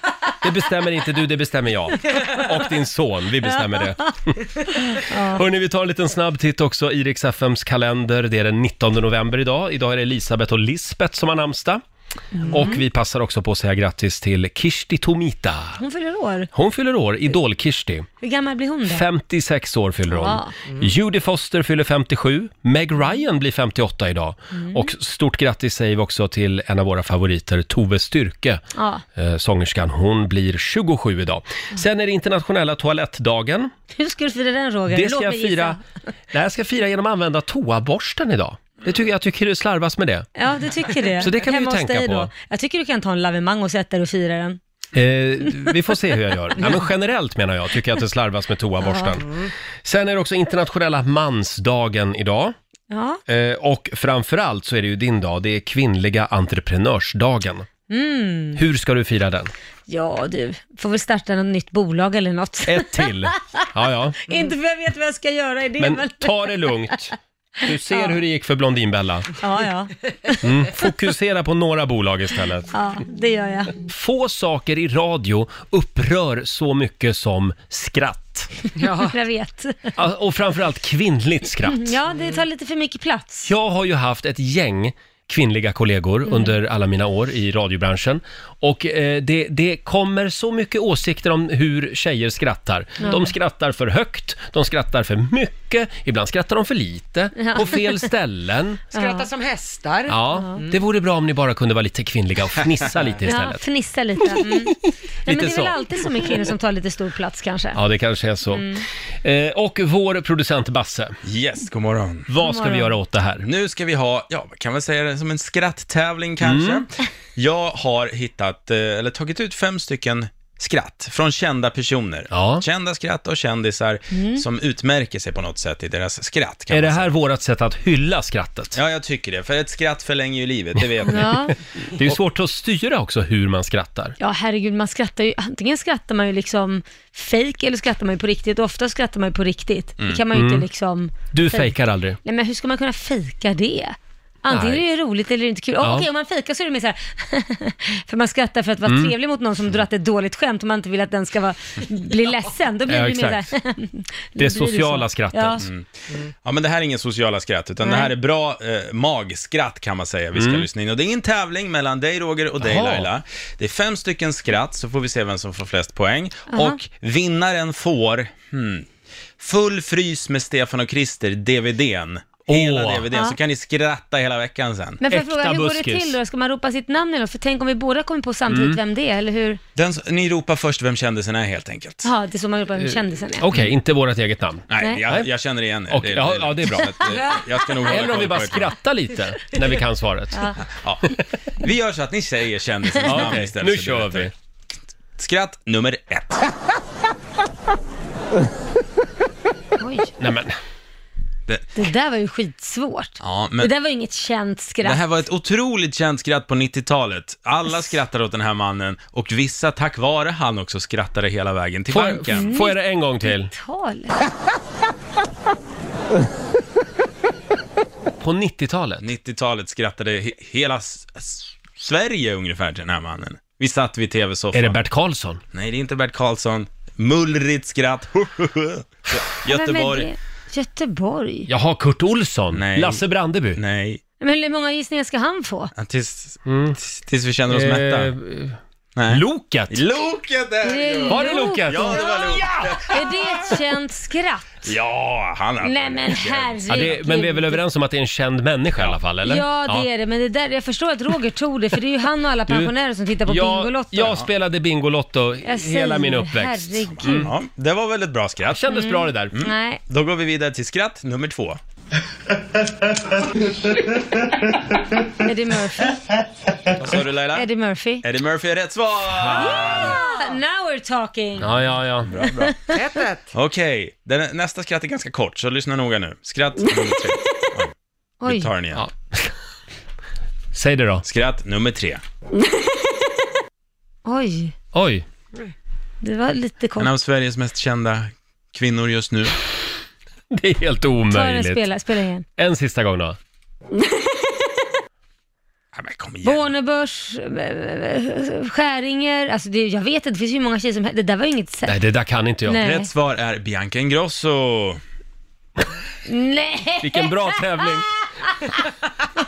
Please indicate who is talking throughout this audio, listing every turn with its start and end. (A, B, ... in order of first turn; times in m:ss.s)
0:00.4-0:11.8 A
0:03.4-0:04.1 B
0:04.9-0:05.4 B
0:12.3-0:12.8 B
0:12.5-0:15.8 A
0:15.8-0:16.5 B
0:16.5-0:18.1 A
0:18.2-0:19.0 B
0:18.9-0:28.6 A
0:20.1-0:20.5 B
0:24.5-0:24.9 B
0:28.7-0:29.0 B
0:29.1-0:33.7 A
0:33.9-0:35.8 B
0:34.9-0:35.8 A
0:36.3-0:40.3 A
0:40.4-0:44.6 B
0:41.2-0:42.3 A
0:44.9-0:49.3 A
0:48.8-0:49.2 B
0:49.8-0:52.5 A
0:52.9-0:53.2 B
0:53.3-0:57.7 A
0:57.9-0:58.6 B
0:58.6-0:59.5 A
0:59.9-1:03.6 B
1:02.6-1:04.2 A
1:04.3-1:06.9 B
1:05.8-1:07.1 A
1:07.6-1:09.4 A
1:07.7-1:08.2 B
1:09.4-1:10.9 B
1:10.4-1:12.7 A
1:12.7-1:13.8 B
1:13.8-1:18.5 A
1:18.8-1:19.1 C
1:18.9-1:19.9 B
1:20.0-1:21.9 A
1:21.6-1:23.5 B
1:22.1-1:22.4 C
1:23.4-1:38.8 A
1:26.2-1:26.6 B
1:33.0-1:33.3 B
1:37.4-1:38.1 B
1:38.9-1:39.3 B
1:38.9-1:40.8 C
1:40.1-1:43.6 A
1:43.2-1:47.8 B
1:44.3-1:44.7 A
1:45.2-1:46.4 A
1:47.7-1:48.6 A
1:48.5-1:48.8 B
1:49.2-1:51.2 A
1:51.2-1:52.3 D
1:52.3-1:53.4 A
1:52.4-1:52.9 B
1:53.4-2:07.1 D
1:56.4-1:56.8 A
2:02.3-2:02.6 A
2:04.1-2:04.4 B
2:06.7-2:08.8 A
2:08.7-2:11.5 D
2:11.0-2:11.5 B
2:12.0-2:14.2 A
2:14.2-2:35.6 B
2:20.3-2:20.6 A
2:21.3-2:22.2 A
2:24.5-2:24.8 A
2:25.8-2:26.1 A
2:28.8-2:29.1 A
2:32.9-2:33.5 A
2:34.4-2:35.7 A
2:35.6-2:55.0 D
2:37.8-2:38.1 B
2:40.3-2:40.6 A
2:42.6-2:43.1 A
2:46.5-2:46.8 B
2:52.5-2:53.0 A
2:55.0-2:59.6 B
2:55.1-2:56.2 A
2:58.5-2:58.8 A
2:59.8-3:02.1 D
3:02.0-3:03.5 B
3:02.8-3:05.3 A
3:04.7-3:08.7 D
3:05.9-3:07.0 A
3:07.8-3:10.6 A
3:10.6-3:14.3 D
3:13.0-3:14.3 A
3:15.2-3:16.5 D
3:19.8-3:20.1 B
3:20.2-3:20.6 A
3:21.8-3:25.0 B
3:23.2-3:23.7 D
3:24.8-3:32.5 D
3:27.7-3:27.9 B
3:31.9-3:33.5 A
3:32.3-3:34.2 B
3:38.2-3:39.0 A
3:39.0-3:44.8 D
3:44.5-3:45.4 A
3:45.5-3:50.1 D
3:49.5-3:51.5 B
3:51.5-3:53.6 A
3:52.5-3:53.0 D
3:53.6-3:54.0 D
3:54.2-3:55.7 B
3:55.8-3:58.1 D
3:56.4-3:56.8 A
3:57.5-3:58.6 A
3:59.0-4:03.0 D
3:59.1-3:59.8 A
4:00.6-4:04.6 B
4:01.1-4:03.4 A
4:04.6-4:07.0 D
4:05.6-4:07.6 B
4:06.7-4:09.8 A
4:09.2-4:14.2 B
4:13.2-4:17.3 A
4:15.4-4:17.3 B
4:16.9-4:18.7 D
4:18.5-4:19.3 A
4:18.7-4:19.8 B
4:19.3-4:21.6 D
4:25.2-4:26.0 B
4:26.8-4:27.5 D
4:27.3-4:28.0 B
4:28.0-4:30.0 D
4:29.1-4:29.8 A
4:29.4-4:31.5 B
4:31.4-4:32.1 A
4:32.0-4:32.7 D
4:32.2-4:32.6 B
4:32.7-4:33.3 C
4:33.3-4:37.7 D
4:38.2-4:38.5 B
4:38.2-4:38.8 D
4:38.7-4:39.3 A
4:40.5-4:41.0 A
4:41.0-4:42.0 D
4:44.0-4:44.5 B
4:44.7-4:45.0 A
4:46.0-4:46.9 B
4:46.8-4:49.4 D
4:50.3-4:51.6 A
4:51.1-4:52.2 B
4:52.4-4:53.2 A
4:55.7-4:56.5 D
4:56.2-5:01.8 B
5:01.7-5:02.6 A
5:02.5-5:02.9 B
5:02.6-5:04.8 D
5:06.0-5:08.3 B
5:06.8-5:07.9 A